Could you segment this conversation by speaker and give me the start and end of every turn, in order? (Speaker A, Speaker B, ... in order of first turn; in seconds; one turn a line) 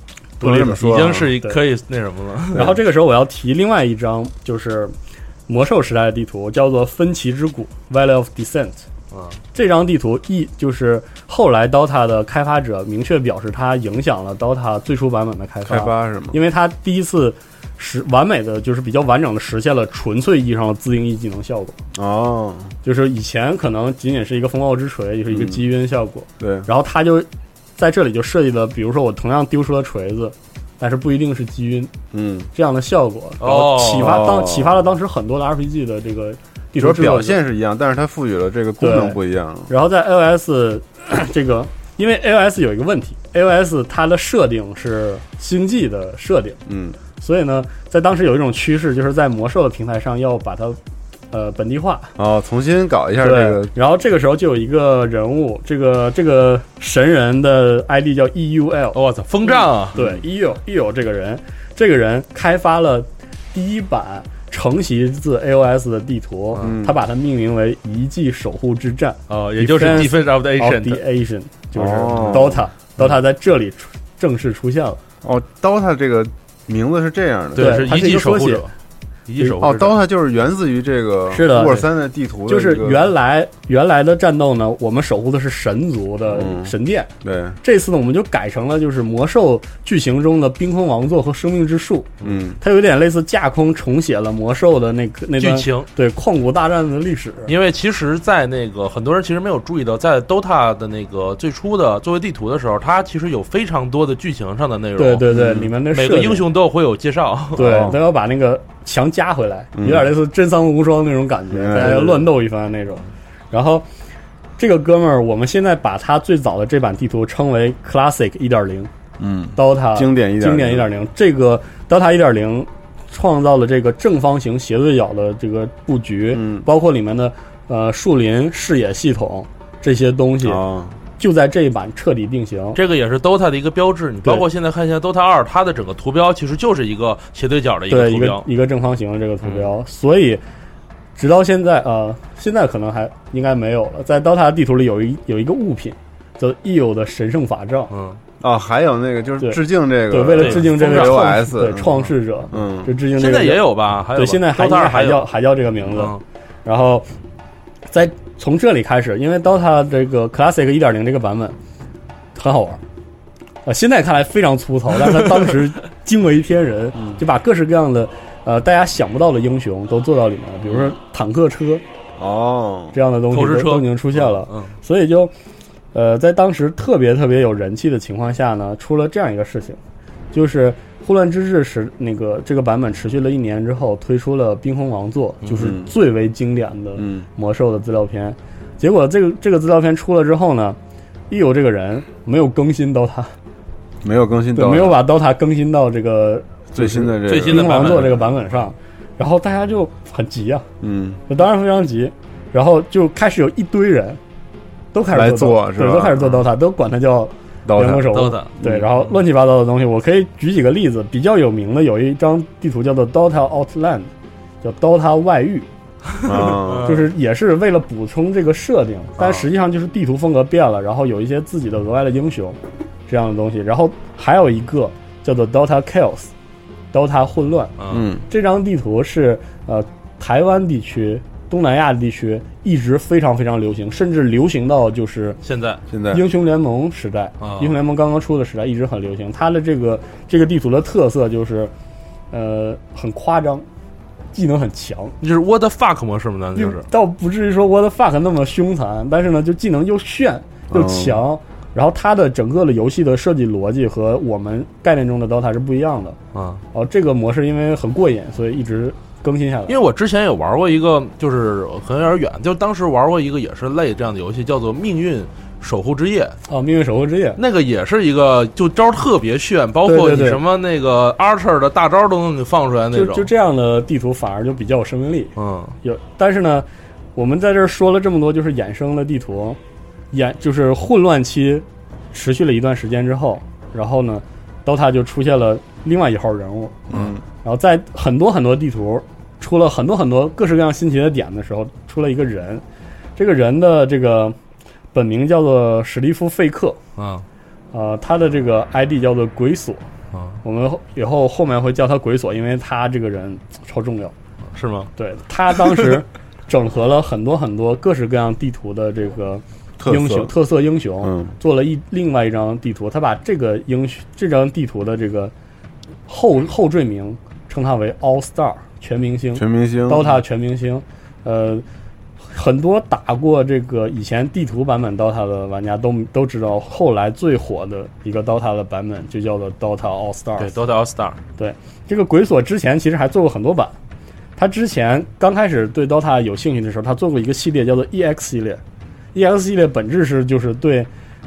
Speaker A: 0.4-1.3
Speaker B: 0.4-1.6
Speaker C: 0.8-2.7
Speaker B: 2.5-4.9
Speaker B: 5.5-8.8
Speaker C: 9.1-9.4
Speaker B: 9.5-21.8
Speaker A: 15.7-16.4
Speaker A: 21.9-22.7
Speaker B: 22.8-31.9
Speaker A: 25.3-25.6
Speaker A: 26.4-26.7
Speaker A: 32.1-32.5
Speaker B: 32.5-37.4
Speaker C: 33.4-34.3
Speaker A: 34.0-34.8
Speaker A: 36.8-39.7
Speaker B: 38.8-46.6
Speaker A: 46.7-47.0
Speaker B: 47.2-50.8
Speaker B: 51.3-52.1
Speaker A: 52.2-53.7
Speaker B: 53.2-75.0
Speaker C: 58.9-60.0
Speaker A: 60.0-60.2
Speaker A: 66.6-67.0
Speaker C: 69.3-71.0
Speaker A: 71.8-72.7
Speaker A: 75.2-77.9
Speaker B: 77.6-78.7
Speaker C: 77.6-78.7
Speaker C: 79.3-80.0
Speaker A: 79.6-83.1
Speaker B: 81.3-81.9
Speaker B: 82.5-87.1
Speaker A: 86.3-87.6
Speaker B: 87.6-97.5
Speaker A: 92.2-92.6
Speaker C: 95.4-95.9
Speaker C: 97.5-105.3
Speaker B: 105.0-106.5
Speaker A: 105.3-105.7
Speaker C: 105.9-107.7
Speaker B: 107.6-113.8
Speaker A: 107.6-108.0
Speaker A: 109.8-110.1
Speaker A: 111.5-112.3
Speaker B: 114.6-118.9
Speaker A: 119.2-120.9
Speaker B: 119.6-130.6
Speaker A: 126.3-126.7
Speaker A: 130.4-131.0
Speaker B: 131.2-132.8
Speaker C: 132.8-138.4
Speaker B: 137.9-140.4
Speaker C: 139.4-139.7
Speaker B: 141.2-147.9
Speaker C: 147.9-148.2
Speaker A: 148.4-151.9
Speaker B: 149.4-157.1
Speaker C: 150.4-151.3
Speaker A: 152.5-152.9
Speaker C: 153.1-155.3
Speaker C: 155.9-156.2
Speaker B: 157.9-161.6
Speaker B: 162.3-162.8
Speaker B: 163.7-171.8
Speaker A: 166.9-167.2
Speaker A: 170.7-170.9
Speaker A: 172.2-173.0
Speaker B: 172.9-175.3
Speaker C: 173.3-174.7
Speaker B: 175.9-179.8
Speaker B: 180.3-190.8
Speaker C: 185.4-185.7
Speaker A: 185.6-185.9
Speaker A: 187.0-187.3
Speaker B: 191.3-193.3
Speaker A: 194.0-195.0
Speaker B: 194.6-200.7
Speaker A: 196.7-198.3
Speaker C: 197.3-198.2
Speaker A: 200.8-201.2
Speaker B: 201.3-204.2
Speaker B: 204.9-214.1
Speaker A: 205.1-206.5
Speaker A: 207.7-208.9
Speaker C: 208.1-208.5
Speaker B: 214.6-215.7
Speaker A: 216.2-217.0
Speaker B: 216.3-226.3
Speaker C: 216.5-217.1
Speaker C: 219.2-219.5
Speaker B: 226.9-227.8
Speaker C: 227.8-228.1
Speaker A: 227.9-228.2
Speaker B: 228.3-235.4
Speaker C: 235.4-235.8
Speaker A: 235.9-236.2
Speaker B: 236.1-241.7
Speaker C: 237.4-237.8
Speaker B: 242.3-243.7
Speaker B: 244.3-245.2
Speaker C: 245.2-246.9
Speaker B: 246.6-256.2
Speaker A: 250.7-251.2
Speaker C: 256.3-256.6
Speaker B: 256.7-259.8
Speaker C: 259.7-266.4
Speaker B: 266.5-267.4
Speaker C: 267.4-273.3
Speaker B: 269.9-270.4
Speaker B: 272.9-276.6
Speaker C: 275.4-275.8
Speaker B: 277.2-279.6
Speaker B: 280.1-292.6
Speaker A: 286.9-287.2
Speaker B: 293.2-294.4
Speaker B: 294.9-296.8
Speaker C: 297.0-297.2
Speaker B: 297.7-299.8
Speaker C: 300.1-300.4
Speaker B: 300.4-304.1
Speaker C: 304.5-304.9
Speaker B: 305.0-315.3
Speaker A: 309.8-310.3
Speaker A: 311.0-311.3
Speaker B: 316.1-321.6
Speaker A: 319.4-320.1
Speaker B: 322.3-330.5
Speaker C: 330.4-331.2
Speaker B: 331.4-333.8
Speaker B: 334.4-338.6
Speaker B: 339.1-340.9